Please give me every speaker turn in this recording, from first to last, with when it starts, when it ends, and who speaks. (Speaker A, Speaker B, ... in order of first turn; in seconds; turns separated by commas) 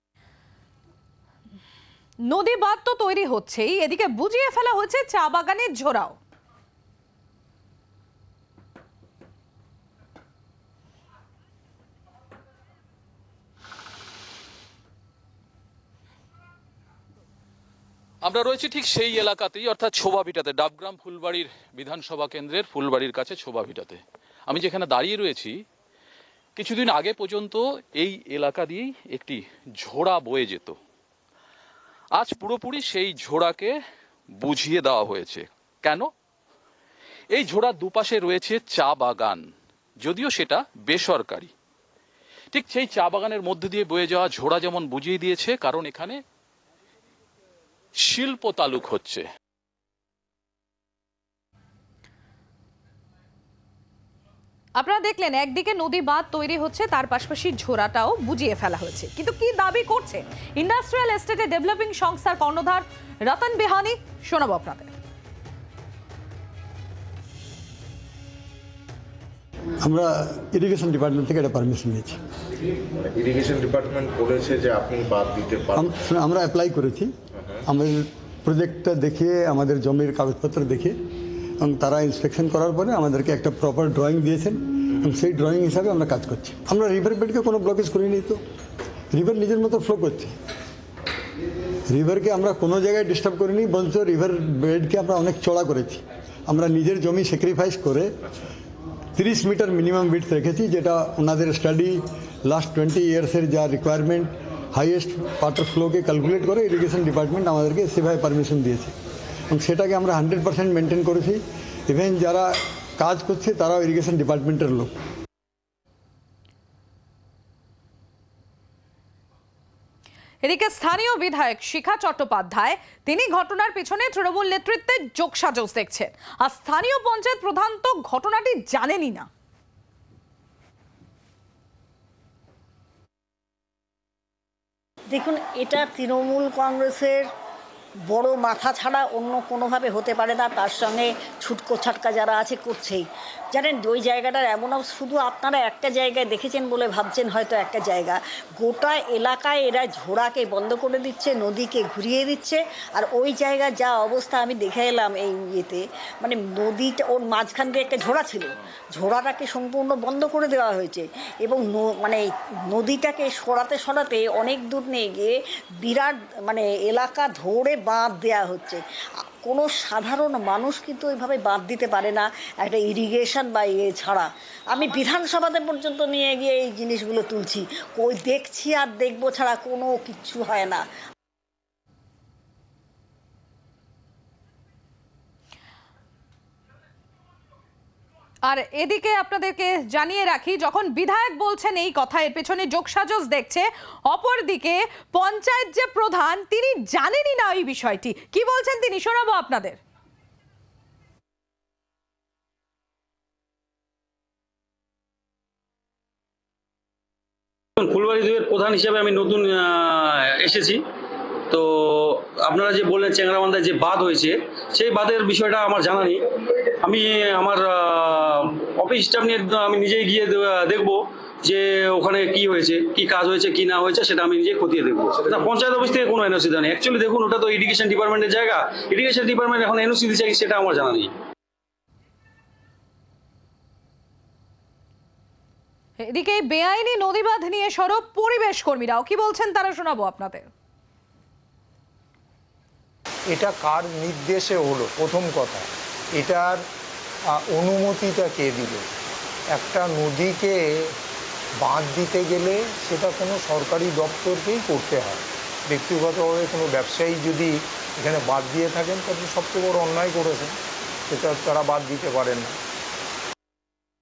Speaker A: 2.3-6.2, Speaker B: 18.2-25.5, Speaker B: 26.6-30.8, Speaker B: 32.2-33.7, Speaker B: 34.4-36.1, Speaker B: 37.3-39.4, Speaker B: 40.0-41.5, Speaker B: 42.5-46.2, Speaker B: 48.0-49.2, Speaker A: 54.8-64.9, Speaker C: 69.8-72.2, Speaker D: 73.0-75.9, Speaker C: 75.7-77.1, Speaker C: 77.7-80.9, Speaker C: 81.6-88.4, Speaker C: 89.1-90.3, Speaker C: 91.9-98.1, Speaker C: 99.1-108.9, Speaker C: 109.5-114.9, Speaker A: 120.4-129.3, Speaker E: 135.1-137.2, Speaker E: 138.1-168.8, Speaker E: 169.4-180.8, Speaker A: 188.5-199.8, Speaker F: 207.8-210.8, Speaker F: 211.5-216.2, Speaker F: 216.8-231.1, Speaker A: 236.0-240.5, Speaker G: 243.3-246.6, Speaker G: 247.5-248.9, Speaker G: 249.5-250.6, Speaker G: 251.6-260.6, Speaker G: 261.1-262.6